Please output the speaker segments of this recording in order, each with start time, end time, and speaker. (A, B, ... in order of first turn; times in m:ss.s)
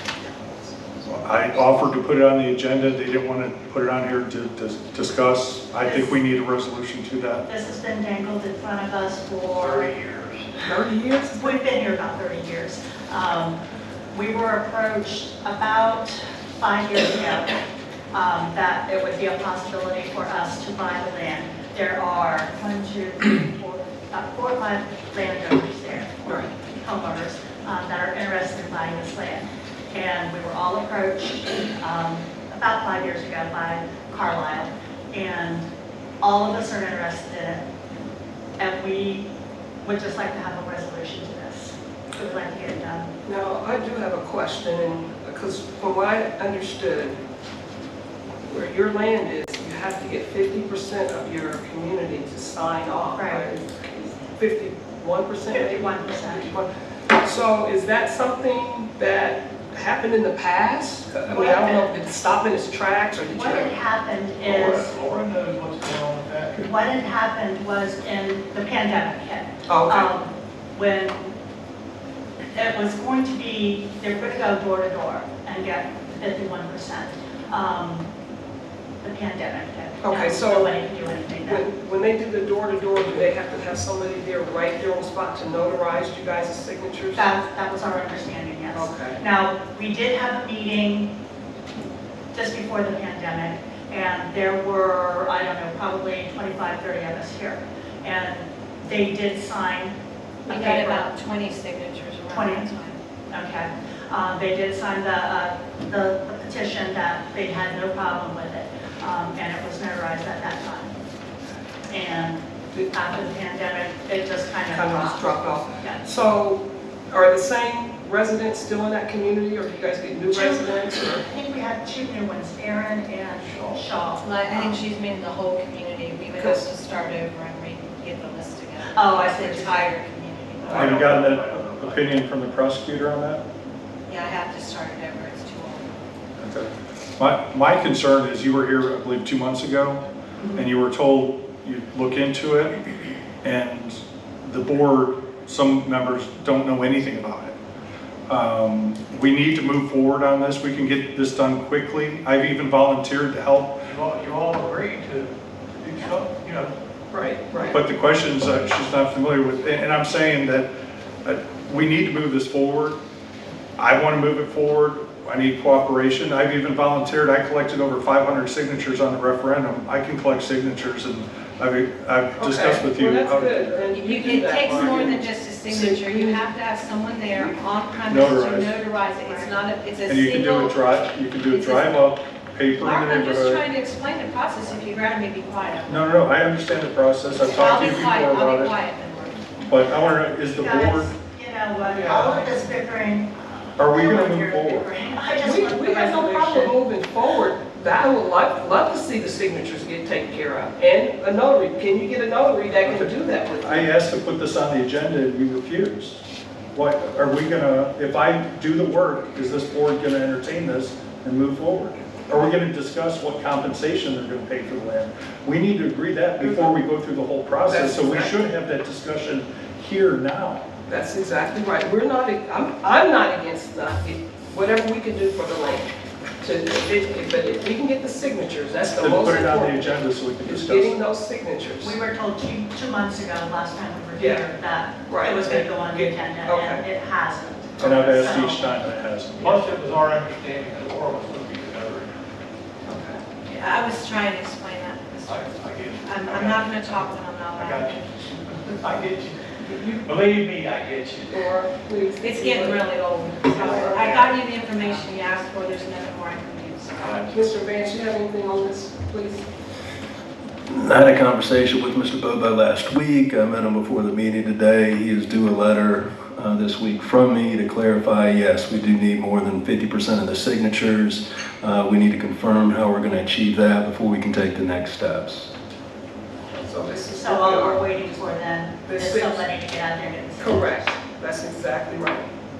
0:01.0-0:07.4 A
0:05.8-0:06.2 B
0:07.5-0:09.9 B
0:09.6-0:10.5 C
0:10.6-0:11.6 D
0:11.4-0:13.6 B
0:14.1-0:17.5 B
0:18.1-0:35.7 B
0:26.2-0:26.5 D
0:36.2-0:37.7 B
0:38.6-0:39.3 B
0:39.8-0:43.1 B
0:43.2-0:47.2 D
0:48.5-0:56.7 D
0:53.1-0:53.4 B
0:55.5-0:56.5 B
0:57.2-1:03.8 D
1:01.3-1:01.9 B
1:03.3-1:05.0 B
1:04.4-1:06.6 C
1:06.6-1:11.4 B
1:09.7-1:10.1 D
1:12.5-1:18.1 B
1:19.0-1:21.7 B
1:20.0-1:20.7 D
1:21.4-1:27.3 D
1:27.1-1:31.1 B
1:28.7-1:29.2 D
1:32.3-1:41.1 B
1:40.5-1:43.0 E
1:42.3-1:42.7 B
1:43.3-1:51.0 B
1:51.9-1:56.1 B
1:54.7-2:01.2 D
2:00.3-2:04.8 B
2:03.5-2:03.8 C
2:04.2-2:10.9 E
2:06.4-2:06.7 D
2:08.9-2:09.9 B
2:10.6-2:12.0 C
2:10.7-2:13.4 A
2:14.1-2:15.8 E
2:16.4-2:22.7 A
2:23.4-2:27.5 A
2:28.3-2:33.8 A
2:33.9-2:36.7 C
2:37.1-2:37.8 D
2:37.7-2:40.7 A
2:41.2-2:43.0 A
2:43.8-2:53.8 A
2:52.4-2:56.4 D
2:53.9-3:00.8 E
2:58.1-2:58.7 A
2:59.2-2:59.6 B
3:00.1-3:03.6 A
3:01.5-3:02.1 E
3:02.8-3:06.1 E
3:05.9-3:08.7 A
3:07.4-3:09.5 E
3:09.7-3:11.1 A
3:10.4-3:16.8 B
3:11.9-3:12.4 C
3:13.8-3:14.9 A
3:15.3-3:23.9 D
3:22.8-3:23.1 A
3:23.6-3:26.2 A
3:26.7-3:40.6 A
3:37.7-3:38.4 D
3:40.9-3:45.9 D
3:46.4-3:52.0 D
3:49.0-3:51.0 A
3:51.8-3:58.7 B
3:54.2-3:54.5 D
3:55.1-3:56.8 D
3:57.8-3:59.6 A
3:59.4-4:02.1 C
4:02.8-4:03.2 D
4:03.5-4:08.1 E
4:05.2-4:11.5 C
4:11.3-4:12.9 D
4:12.2-4:17.3 E
4:13.4-4:14.3 D
4:13.6-4:14.1 C
4:17.0-4:17.6 C
4:17.3-4:19.5 D
4:20.7-4:35.5 F
4:36.5-4:38.0 D
4:37.2-4:40.6 B
4:38.8-4:39.5 D
4:40.4-4:42.3 D